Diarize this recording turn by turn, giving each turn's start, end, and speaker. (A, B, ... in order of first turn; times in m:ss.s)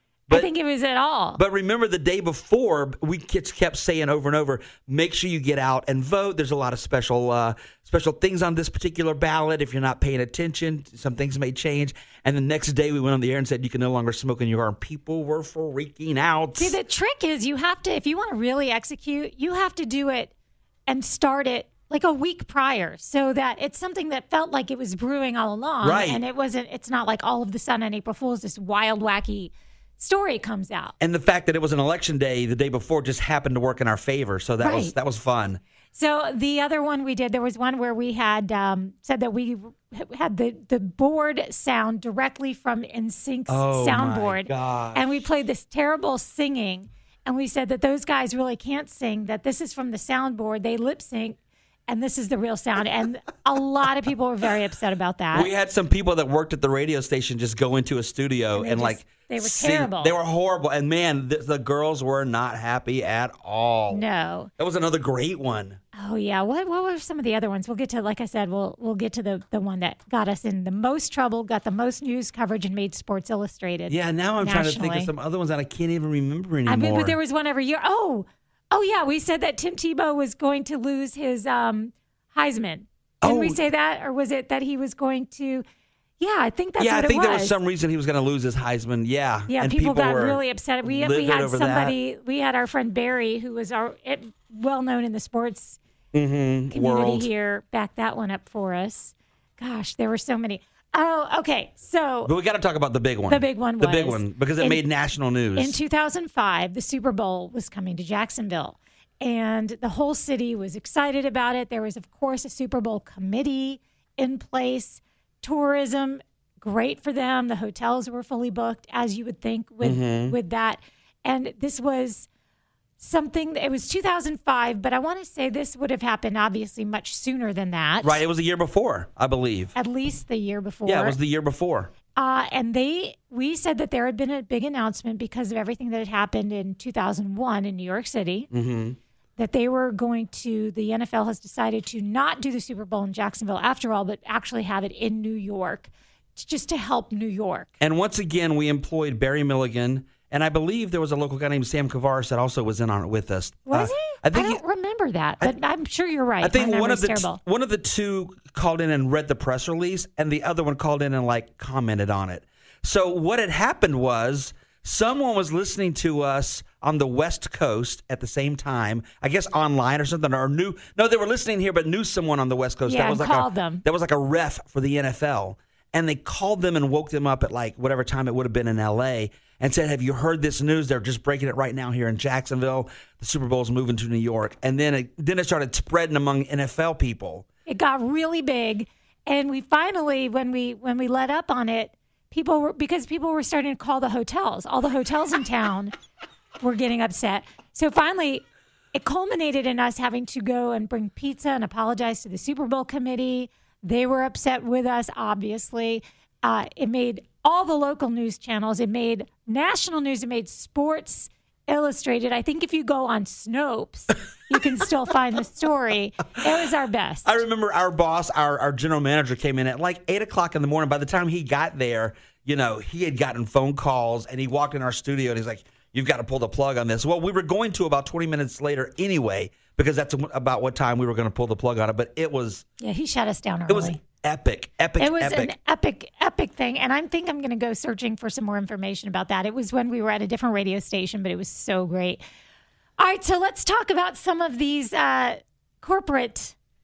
0:00.3-0:01.4 A
0:01.4-0:16.8 B
0:16.6-0:20.3 A
0:20.9-0:30.9 A
0:25.8-0:26.2 B
0:31.0-0:35.6 B
0:34.6-0:34.9 A
0:35.9-0:51.4 A
0:43.5-0:45.2 B
0:51.9-0:55.5 A
0:55.3-1:04.0 B
0:58.5-1:00.1 A
1:03.9-1:04.5 A
1:04.6-1:05.8 B
1:05.9-1:15.1 A
1:13.9-1:17.2 B
1:16.6-1:25.6 A
1:23.2-1:23.6 B
1:26.2-1:27.6 A
1:26.8-1:32.0 B
1:29.5-1:35.8 A
1:36.1-1:37.3 B
1:36.7-1:42.3 A
1:42.2-1:45.8 B
1:43.3-1:44.8 A
1:45.5-2:02.3 A
1:59.8-2:00.3 B
2:03.0-2:08.2 A
2:08.0-2:09.7 B
2:09.7-2:11.2 A
2:10.8-2:11.9 B
2:12.1-2:18.5 A
2:18.5-2:19.0 B
2:19.4-2:27.7 A
2:27.8-2:34.6 B
2:33.7-2:37.4 A
2:36.4-3:07.4 B
2:52.8-2:53.8 A
3:07.6-3:15.9 A
3:16.6-3:37.4 A
3:37.2-3:52.6 B
3:52.8-3:54.0 A
3:53.7-3:55.5 B
3:55.0-4:02.2 A
4:03.0-4:06.6 A